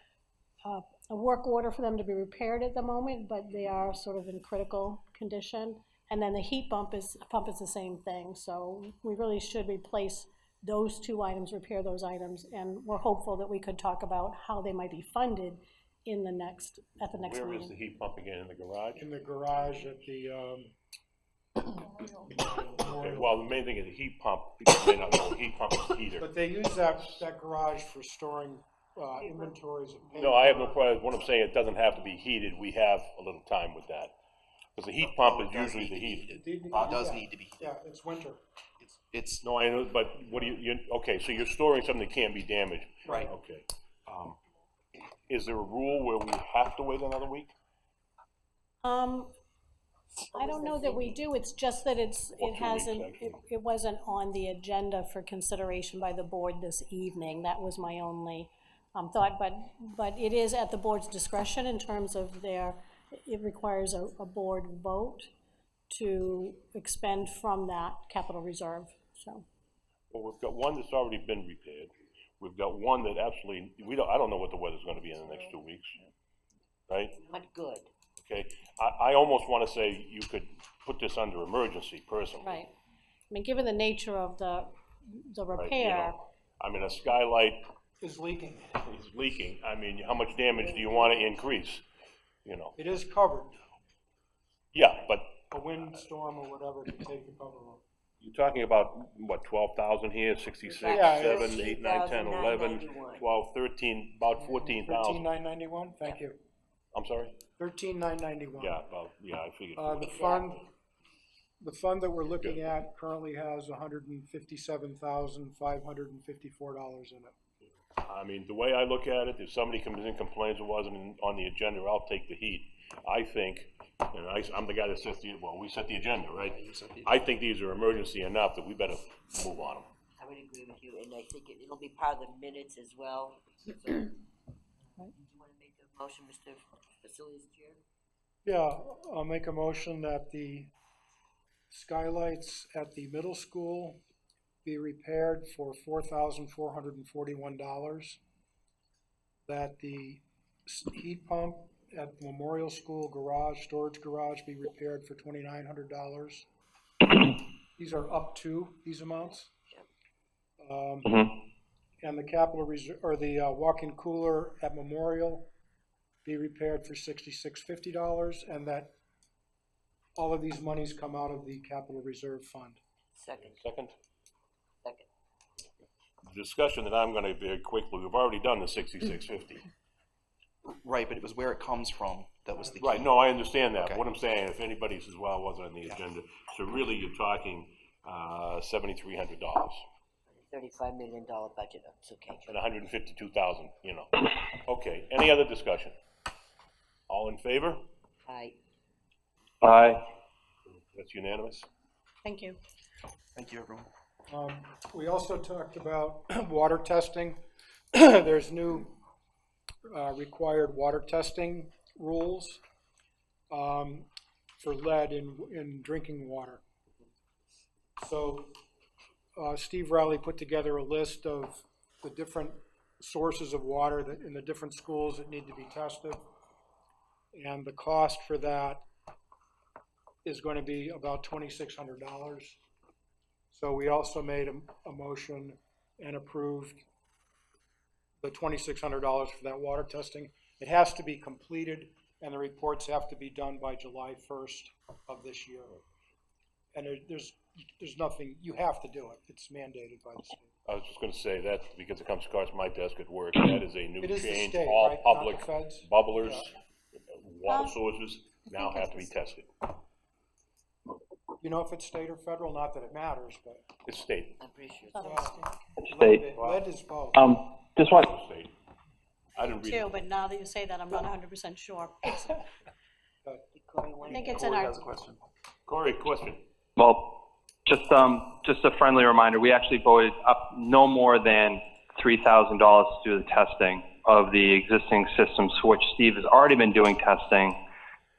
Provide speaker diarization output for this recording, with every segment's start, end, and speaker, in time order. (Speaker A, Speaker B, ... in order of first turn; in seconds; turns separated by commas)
Speaker A: 0.6-17.8, Speaker B: 17.2-19.1, Speaker C: 18.9-20.7, Speaker C: 22.3-23.3, Speaker B: 23.0-26.3, Speaker C: 26.2-31.0, Speaker B: 30.2-34.1, Speaker B: 34.8-36.3, Speaker D: 35.0-37.7, Speaker C: 36.4-38.4, Speaker D: 38.8-39.5, Speaker B: 39.4-44.4, Speaker B: 45.3-47.5, Speaker A: 48.8-49.3, Speaker E: 50.3-51.2, Speaker A: 50.3-65.3, Speaker B: 52.4-53.4, Speaker A: 65.9-69.5, Speaker B: 70.1-76.0, Speaker B: 76.9-77.2, Speaker E: 77.2-77.9, Speaker B: 78.2-82.6, Speaker A: 82.4-82.7, Speaker A: 83.3-86.2, Speaker B: 85.5-87.7, Speaker C: 88.0-88.8, Speaker B: 88.8-91.8, Speaker B: 92.5-92.8, Speaker C: 92.8-93.6, Speaker B: 94.7-95.4, Speaker C: 95.5-97.8, Speaker B: 98.2-105.3, Speaker E: 100.7-103.3, Speaker C: 100.8-101.6, Speaker C: 104.7-106.4, Speaker B: 106.9-107.4, Speaker C: 107.6-108.8, Speaker B: 108.6-110.2, Speaker C: 109.8-110.7, Speaker E: 110.0-110.6, Speaker C: 111.6-117.3, Speaker B: 118.0-129.9, Speaker D: 126.4-127.3, Speaker E: 130.2-134.1, Speaker E: 135.0-137.8, Speaker C: 138.4-140.7, Speaker C: 141.7-144.0, Speaker C: 144.7-148.2, Speaker C: 149.5-156.5, Speaker C: 157.2-159.5, Speaker C: 160.6-161.3, Speaker C: 162.0-165.5, Speaker C: 166.2-168.9, Speaker C: 170.2-172.8, Speaker E: 173.2-173.6, Speaker B: 173.4-173.9, Speaker B: 176.3-179.7, Speaker D: 180.7-183.2, Speaker B: 182.8-189.8, Speaker D: 183.7-184.0, Speaker E: 190.4-192.6, Speaker B: 192.5-195.9, Speaker B: 197.1-197.8, Speaker E: 198.3-198.6, Speaker F: 199.6-200.0, Speaker B: 200.7-201.7, Speaker A: 202.2-202.6, Speaker D: 203.3-203.9, Speaker C: 204.3-207.4, Speaker C: 207.9-209.0, Speaker C: 209.9-212.6, Speaker C: 213.5-214.1, Speaker C: 214.6-216.6, Speaker C: 218.0-218.6, Speaker C: 219.4-226.2, Speaker C: 227.3-228.8, Speaker C: 230.2-232.6, Speaker C: 233.5-236.8, Speaker C: 238.2-245.8, Speaker C: 246.8-250.5, Speaker B: 250.7-259.5, Speaker C: 254.0-256.5, Speaker A: 257.5-257.8, Speaker A: 258.6-259.1, Speaker C: 261.4-263.7, Speaker B: 263.9-264.4, Speaker E: 264.4-265.1, Speaker A: 264.9-265.6, Speaker C: 265.0-265.4, Speaker F: 265.9-266.2, Speaker C: 265.9-267.3, Speaker B: 266.4-266.6, Speaker F: 267.2-268.1, Speaker B: 267.9-268.5, Speaker B: 269.4-270.0, Speaker A: 269.6-272.4, Speaker E: 273.6-274.6, Speaker C: 274.0-274.5, Speaker A: 274.1-274.9, Speaker D: 274.4-275.2, Speaker B: 275.7-276.4, Speaker F: 276.8-277.0, Speaker F: 277.7-287.6